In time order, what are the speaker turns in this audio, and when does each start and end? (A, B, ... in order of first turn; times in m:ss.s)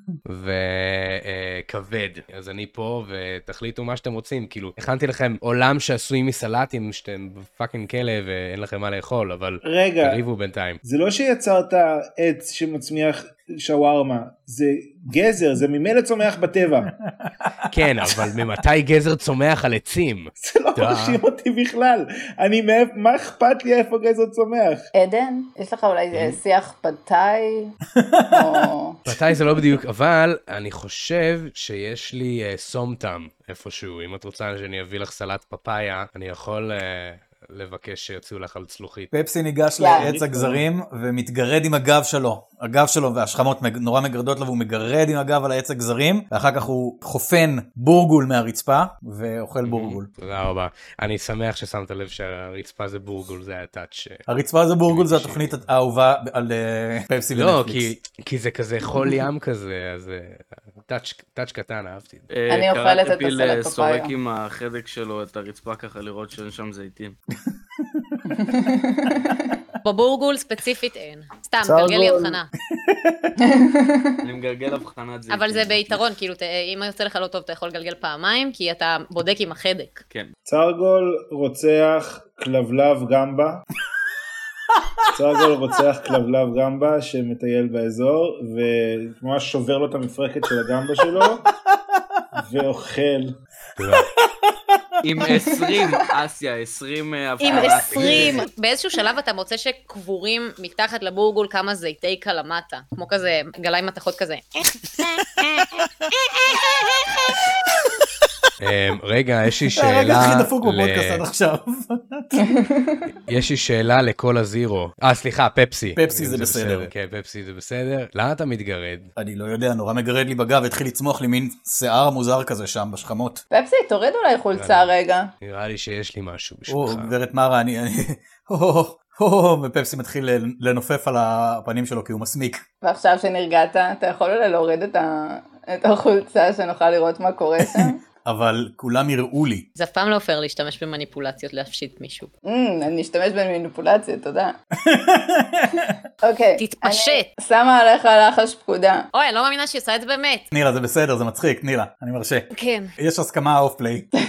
0:00.3-0:10.8 A
0:09.6-0:10.2 B
0:10.8-0:16.9 B
0:17.1-0:17.5 C
0:17.7-0:21.2 A
0:18.0-0:18.3 C
0:20.4-0:24.9 B
0:24.9-0:27.8 D
0:26.1-0:26.4 A
0:28.0-0:28.6 C
0:28.3-0:29.0 D
0:29.1-0:39.1 A
0:39.1-0:50.1 C
0:39.8-0:40.1 D
0:39.8-0:40.6 B
0:50.1-0:54.2 A
0:54.3-0:57.9 C
0:54.9-0:55.6 A
0:57.4-1:02.3 A
1:02.3-1:07.2 E
1:02.5-1:04.1 D
1:07.8-1:08.3 C
1:08.3-1:09.6 D
1:09.8-1:12.5 F
1:11.6-1:12.4 B
1:12.8-1:13.3 C
1:13.4-1:14.2 D
1:14.2-1:16.0 E
1:15.3-1:20.0 F
1:20.5-1:23.6 B
1:25.1-1:31.4 B
1:31.8-1:32.2 C
1:32.4-1:33.3 B
1:33.8-1:34.1 A
1:33.9-1:34.8 C
1:35.0-1:38.4 E
1:37.4-1:44.4 F
1:37.4-1:38.3 D
1:48.6-1:51.2 A
1:49.7-1:52.4 C
1:52.4-1:53.1 D
1:53.2-1:59.1 A
1:56.0-1:56.9 C
1:59.2-2:03.4 C
2:03.5-2:05.3 D
2:04.6-2:07.1 A
2:06.7-2:12.6 C
2:12.8-2:18.0 D
2:17.6-2:19.6 C
2:19.8-2:22.3 F
2:22.4-2:24.6 D
2:24.8-2:25.9 C
2:26.2-2:29.1 D
2:26.6-2:27.3 F
2:29.1-2:30.5 F
2:30.5-2:34.1 C
2:32.5-2:32.9 F